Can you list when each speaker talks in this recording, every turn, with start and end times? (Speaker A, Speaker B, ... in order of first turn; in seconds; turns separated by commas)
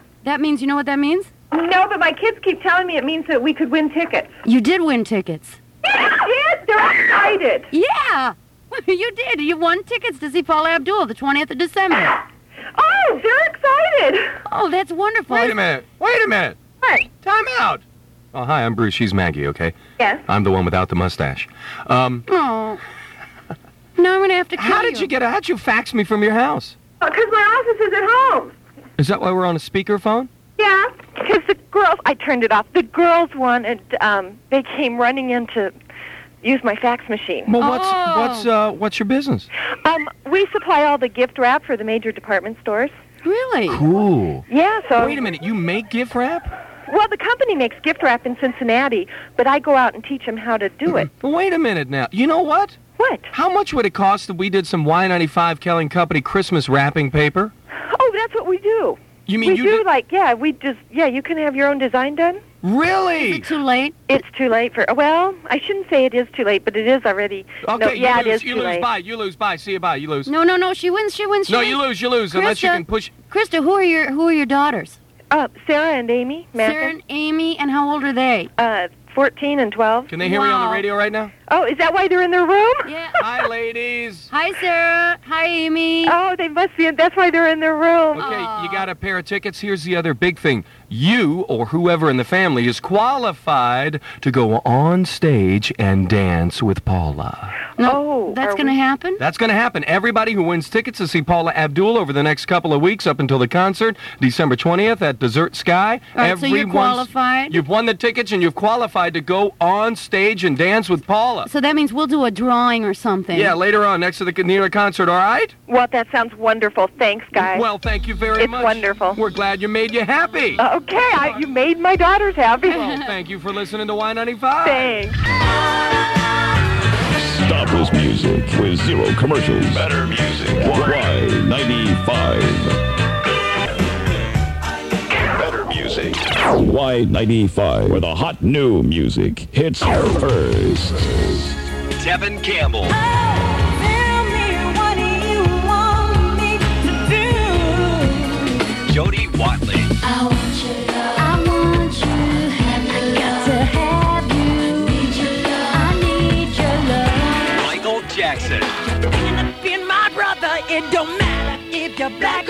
Speaker A: 0.2-1.3, Speaker B: 1.5-4.3, Speaker A: 4.4-5.6, Speaker B: 5.8-7.7, Speaker A: 7.7-12.2, Speaker B: 12.8-14.3, Speaker A: 14.5-15.6, Speaker C: 15.3-16.6, Speaker B: 16.8-17.1, Speaker C: 17.2-17.8, Speaker C: 18.3-19.8, Speaker C: 20.3-22.2, Speaker A: 22.3-22.8, Speaker A: 23.9-25.1, Speaker C: 24.6-26.7, Speaker B: 27.0-28.5, Speaker C: 29.0-30.3, Speaker B: 30.6-35.7, Speaker B: 36.4-37.5, Speaker C: 37.5-39.5, Speaker A: 37.6-38.5, Speaker B: 39.8-42.9, Speaker A: 43.2-43.8, Speaker C: 43.7-46.5, Speaker B: 44.5-45.2, Speaker B: 46.9-51.1, Speaker C: 50.9-52.8, Speaker B: 53.0-53.3, Speaker C: 53.3-57.5, Speaker B: 57.9-62.4, Speaker C: 59.3-59.8, Speaker C: 62.6-63.5, Speaker A: 63.1-64.0, Speaker B: 64.1-68.8, Speaker C: 67.6-70.3, Speaker A: 70.2-75.0, Speaker C: 71.5-73.1, Speaker B: 75.3-76.9, Speaker A: 76.6-78.5, Speaker B: 78.6-80.2, Speaker C: 80.1-81.3, Speaker A: 80.2-80.8, Speaker B: 81.5-83.2, Speaker A: 82.8-83.2, Speaker C: 83.2-84.3, Speaker A: 84.3-86.2, Speaker B: 86.0-88.3, Speaker C: 88.1-97.7, Speaker A: 88.2-88.9, Speaker A: 97.8-99.2, Speaker B: 97.8-98.7, Speaker C: 99.2-111.5, Speaker A: 106.1-107.6, Speaker A: 111.4-113.6, Speaker C: 113.3-115.5, Speaker B: 115.7-117.7, Speaker C: 117.3-120.6, Speaker B: 118.3-119.2, Speaker B: 120.6-122.9, Speaker C: 122.7-124.9, Speaker B: 124.6-125.2, Speaker D: 127.1-132.8, Speaker D: 135.4-141.5, Speaker E: 142.0-142.9, Speaker A: 143.2-148.1, Speaker E: 148.9-149.8, Speaker A: 151.2-155.2, Speaker A: 155.8-157.3, Speaker E: 157.7-158.6